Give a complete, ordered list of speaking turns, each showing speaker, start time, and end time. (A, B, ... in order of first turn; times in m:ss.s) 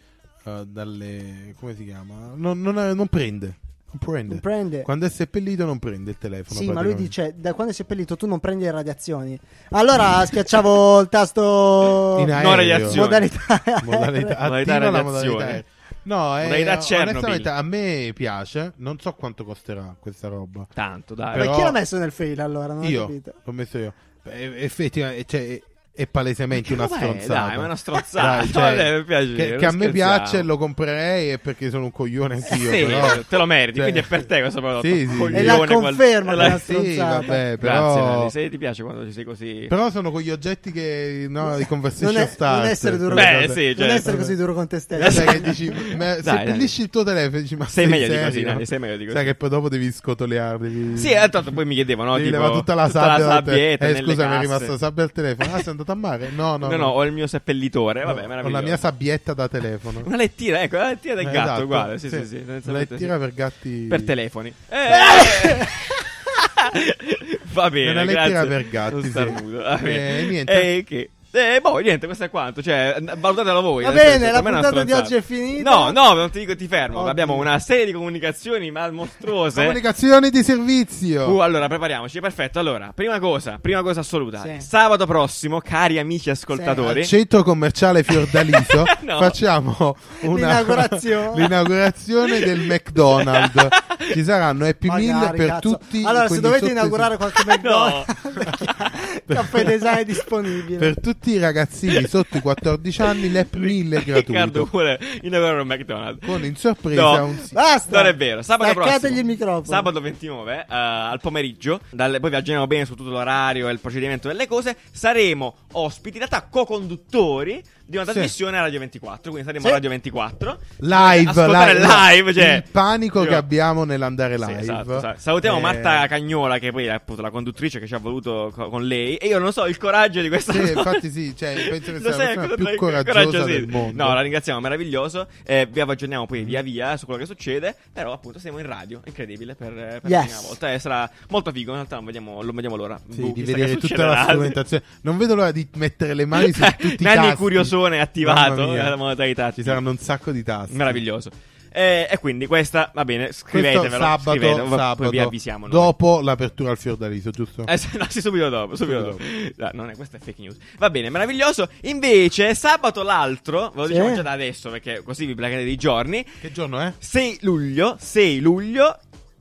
0:00.4-0:07.1 A
0:04.3-0:04.9 B
0:06.5-0:14.4 B
0:12.1-0:13.0 A
0:12.3-0:13.3 C
0:13.8-0:20.7 A
0:14.4-0:15.6 C
0:16.4-0:17.5 C
0:20.8-0:21.5 C
0:21.3-0:21.8 A
0:21.3-0:23.3 B
0:22.8-0:33.2 A
0:26.5-0:30.5 C
0:32.5-0:36.6 C
0:33.7-0:34.2 A
0:34.8-0:35.7 A
0:35.3-0:37.4 B
0:36.4-0:38.3 A
0:37.6-0:39.7 C
0:39.7-0:44.3 A
0:41.5-0:45.5 B
0:43.1-0:44.1 C
0:45.0-0:46.7 C
0:45.0-0:51.4 A
0:47.7-0:49.3 C
0:50.9-0:54.8 C
0:52.1-0:56.9 A
0:56.6-0:58.8 C
0:58.0-1:00.1 A
1:00.0-1:03.1 C
1:01.2-1:04.1 A
1:03.9-1:19.8 C
1:05.0-1:05.7 B
1:07.8-1:10.7 A
1:13.8-1:16.0 B
1:16.9-1:17.5 B
1:19.5-1:21.4 A
1:21.2-1:27.1 C
1:24.4-1:24.7 B
1:26.5-1:26.8 B
1:26.8-1:37.1 A
1:28.2-1:29.4 C
1:30.2-1:31.5 B
1:33.1-1:34.1 C
1:34.8-1:40.9 B
1:37.5-1:38.9 C
1:39.3-1:39.7 A
1:40.8-1:44.7 A
1:41.9-1:42.4 C
1:43.0-1:47.3 C
1:46.2-1:47.6 A
1:47.5-1:49.9 B
1:47.9-2:03.4 C
1:58.1-1:58.3 A
2:00.8-2:06.1 A
2:04.4-2:11.0 C
2:10.5-2:14.2 A
2:11.5-2:24.6 C
2:20.0-2:20.6 B
2:23.1-2:29.0 A
2:26.3-2:29.8 C
2:29.6-2:31.0 A
2:30.7-2:35.9 C
2:33.5-2:37.7 A
2:37.7-2:46.4 C
2:38.8-2:39.2 A
2:43.9-2:44.2 B
2:46.4-2:47.0 A
2:47.0-2:49.0 C